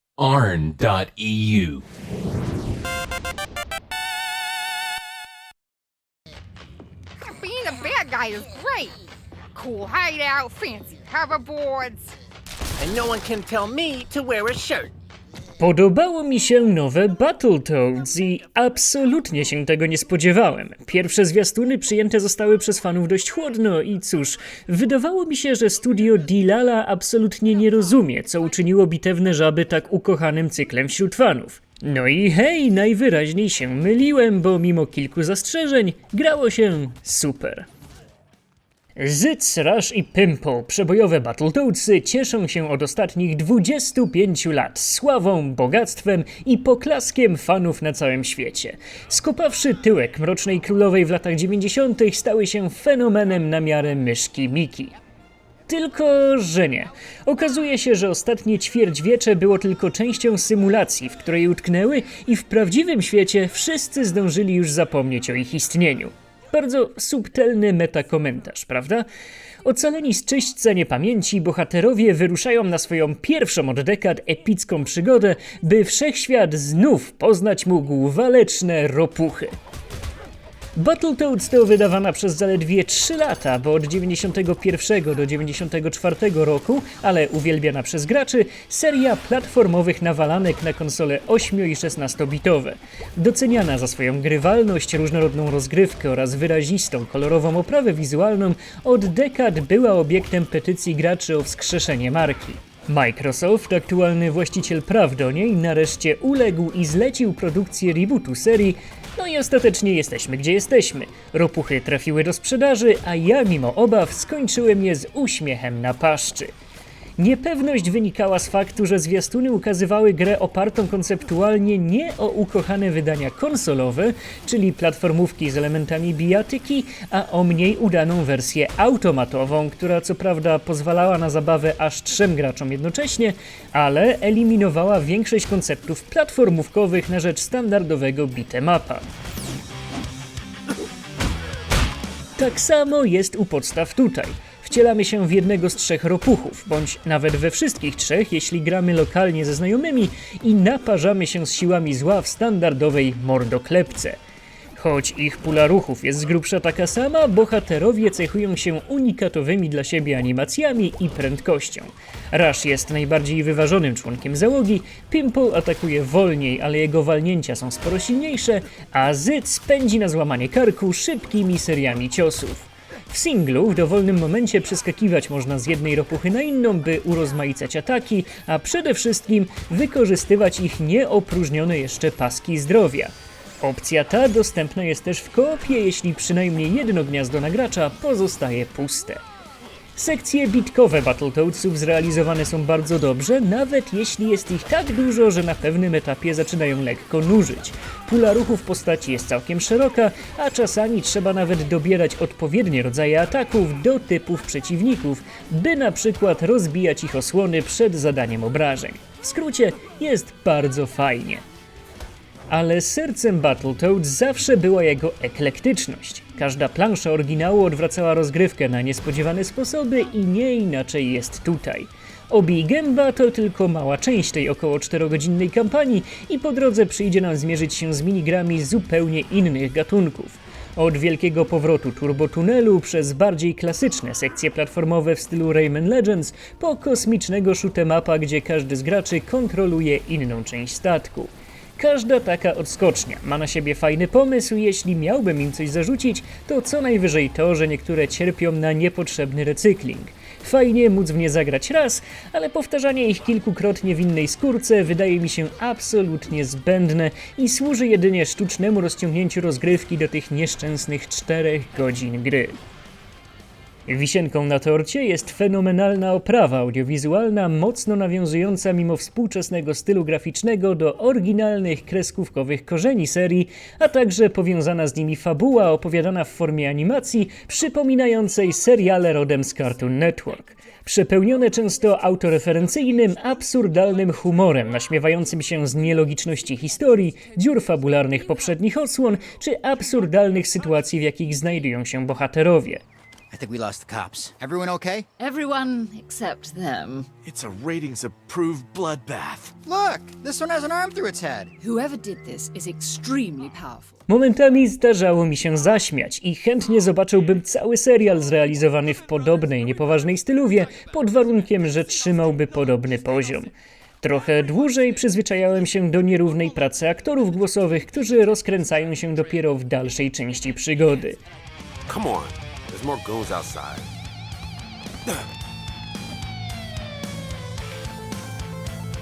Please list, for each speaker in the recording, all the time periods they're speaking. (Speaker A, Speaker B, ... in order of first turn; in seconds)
Speaker A: 0.2-0.7, 297.2-299.6
Speaker B: 0.2-1.8, 321.9-323.9
Speaker C: 7.2-9.0, 9.6-12.2
Speaker D: 12.8-14.9
Speaker E: 15.6-37.7, 39.0-55.0, 55.7-69.1, 69.6-79.5, 80.8-116.5, 117.2-139.1, 142.4-154.2, 154.8-189.2, 190.0-211.4, 212.5-262.6, 263.9-292.8, 304.1-321.2
Speaker F: 293.3-295.1, 299.6-301.5
Speaker G: 295.2-297.1, 301.6-304.0